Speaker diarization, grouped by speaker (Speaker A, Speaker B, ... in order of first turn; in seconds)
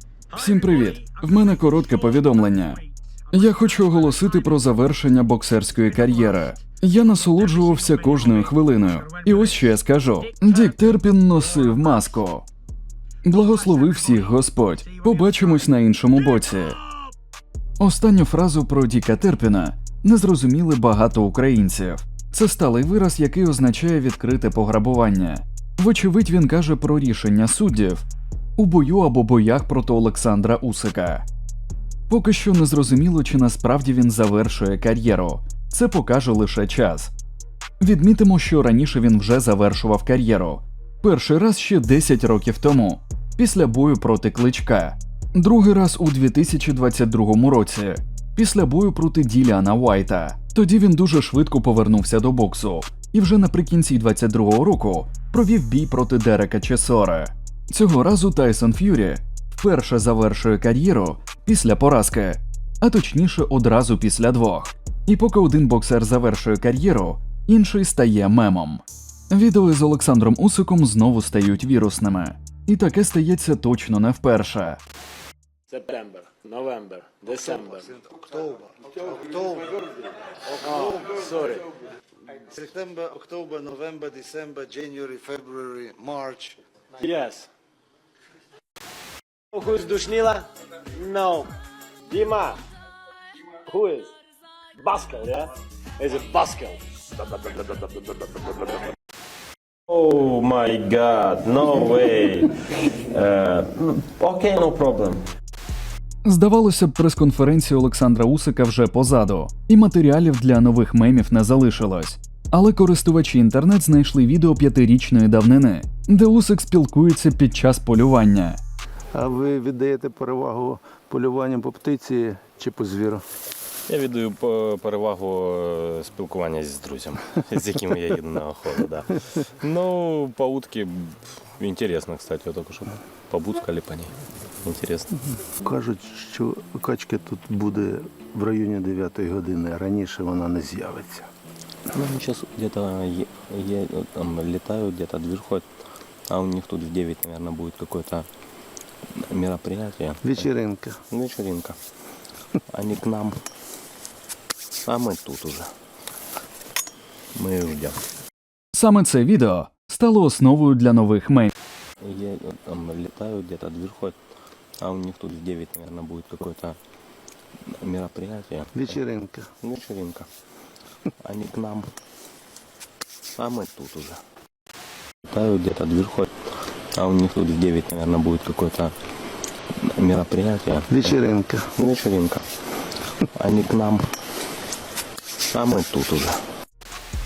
Speaker A: 0.3-12.5, 13.2-16.8, 17.8-31.3, 32.1-37.1, 37.8-74.8, 106.2-118.6, 158.7-161.5
Speaker B: 75.7-77.9, 80.5-81.7, 87.0-87.5, 89.5-91.5, 92.1-92.6, 93.7-94.1, 94.8-98.9
Speaker C: 77.8-80.0, 80.7-81.3, 82.5-86.6
Speaker D: 99.9-105.2, 123.9-135.3, 141.9-145.7, 146.3-148.3, 149.2-150.5, 151.1-151.8, 152.7-153.4, 154.8-155.7, 157.3-158.0, 162.0-164.2, 164.8-166.8, 167.8-169.0, 169.6-170.3, 171.2-171.9, 173.4-174.2, 175.3-176.3, 177.0-178.9, 179.8-181.2, 181.7-182.4, 183.4-184.1, 185.5-186.4
Speaker E: 119.1-123.2, 135.6-141.3, 150.2-151.0, 168.8-169.5, 180.9-181.7